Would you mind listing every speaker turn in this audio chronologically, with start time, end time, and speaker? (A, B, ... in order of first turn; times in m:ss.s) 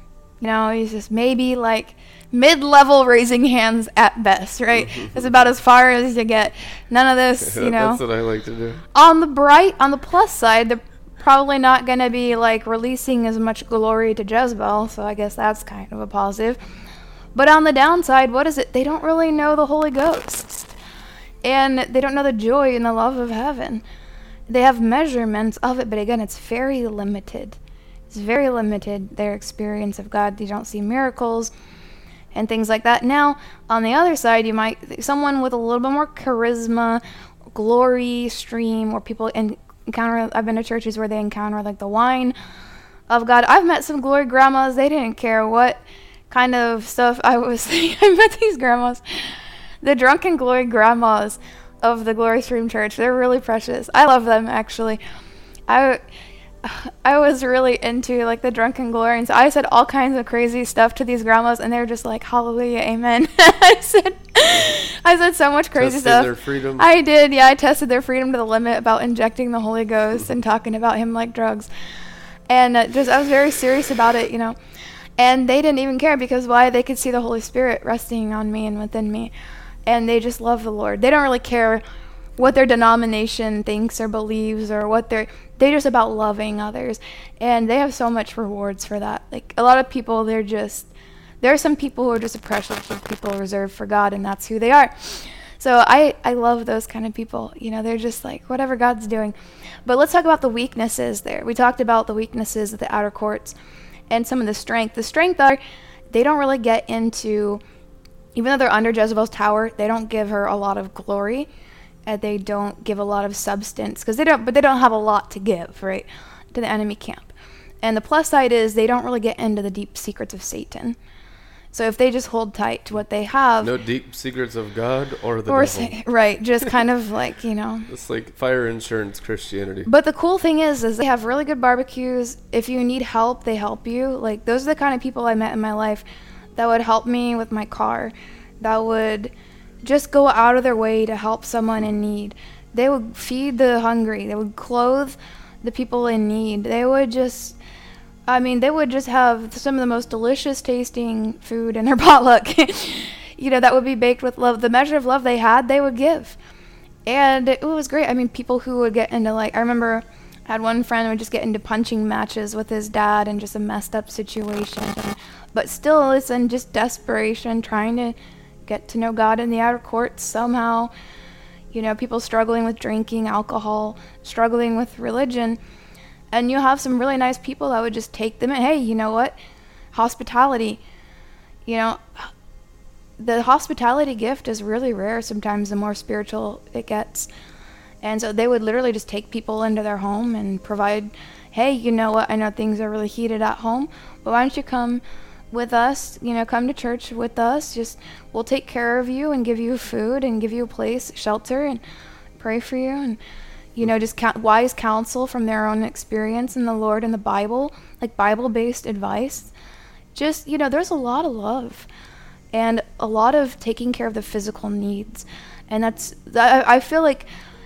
0:00.4-0:08.0 A
0:07.4-0:08.8 B
0:08.9-0:16.6 A
0:17.4-0:20.8 A
0:21.4-0:23.8 A
0:24.5-0:27.6 A
0:28.1-0:31.5 A
0:32.3-0:37.0 A
0:37.5-0:42.4 A
0:43.1-0:55.0 A
0:55.7-0:56.0 A
0:56.6-1:11.7 A
1:05.8-1:06.9 B
1:12.5-1:14.6 A
1:15.2-1:19.3 A
1:19.9-1:21.8 A
1:22.4-1:43.6 A
1:44.1-1:45.6 A
1:46.1-1:47.6 A
1:48.4-1:51.5 A
1:52.1-2:01.0 A
2:01.7-2:03.7 A
2:03.6-2:06.0 B
2:05.5-2:07.9 A
2:07.9-2:09.9 B
2:09.9-2:16.0 A
2:16.6-2:19.3 A
2:19.8-2:27.6 A
2:28.3-2:36.4 A
2:37.1-2:48.2 A
2:48.7-2:50.9 A
2:51.7-2:55.6 A
2:56.3-2:59.4 A
2:59.9-3:00.8 A
3:01.7-3:02.3 A
3:03.2-3:07.3 A
3:08.0-3:21.8 A
3:22.4-3:23.2 A
3:23.8-3:29.5 A
3:30.1-3:31.9 A
3:32.5-3:37.3 A